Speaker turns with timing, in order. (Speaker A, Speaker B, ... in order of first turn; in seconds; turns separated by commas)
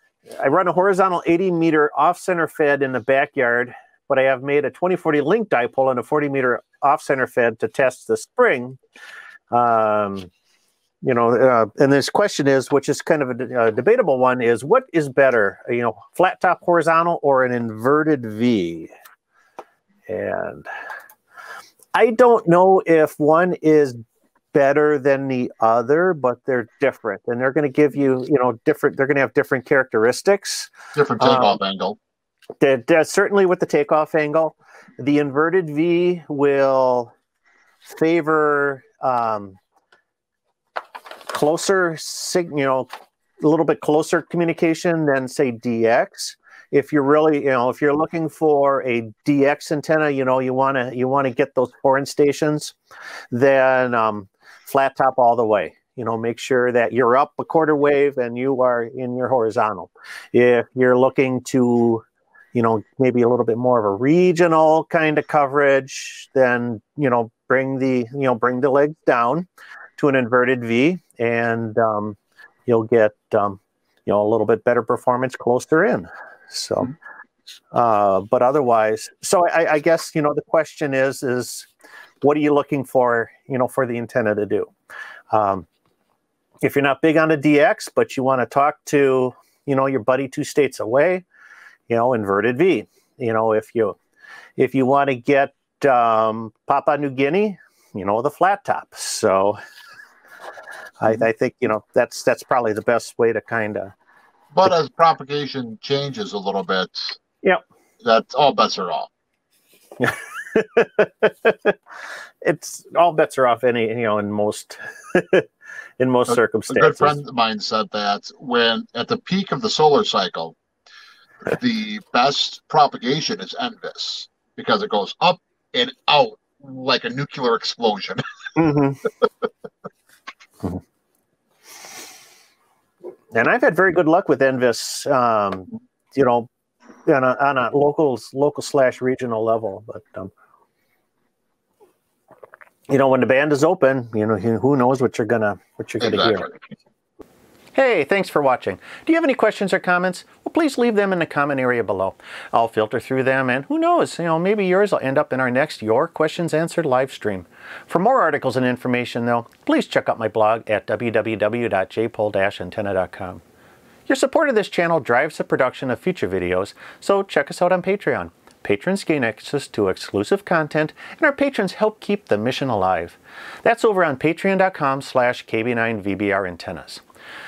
Speaker A: 0.4-8.8, Speaker A: 9.5-10.3, Speaker A: 11.0-18.9, Speaker A: 20.1-20.7, Speaker A: 21.9-24.0, Speaker A: 24.5-31.5, Speaker B: 30.9-32.0, Speaker A: 32.6-37.1, Speaker A: 37.9-39.6, Speaker A: 41.3-52.8, Speaker A: 53.3-76.9, Speaker A: 77.7-81.7, Speaker A: 82.2-84.7, Speaker A: 85.3-85.7, Speaker A: 86.6-91.2, Speaker A: 91.9-94.0, Speaker A: 94.6-99.6, Speaker A: 101.0-103.9, Speaker B: 104.5-107.2, Speaker B: 108.0-109.1, Speaker A: 110.0-111.7, Speaker A: 112.4-115.5, Speaker A: 116.0-117.2, Speaker B: 116.3-120.5, Speaker B: 121.5-128.2, Speaker A: 128.6-129.0, Speaker A: 133.3-136.5, Speaker A: 137.1-140.3, Speaker A: 142.9-146.5, Speaker B: 146.0-146.6, Speaker A: 147.7-163.4, Speaker A: 164.1-177.0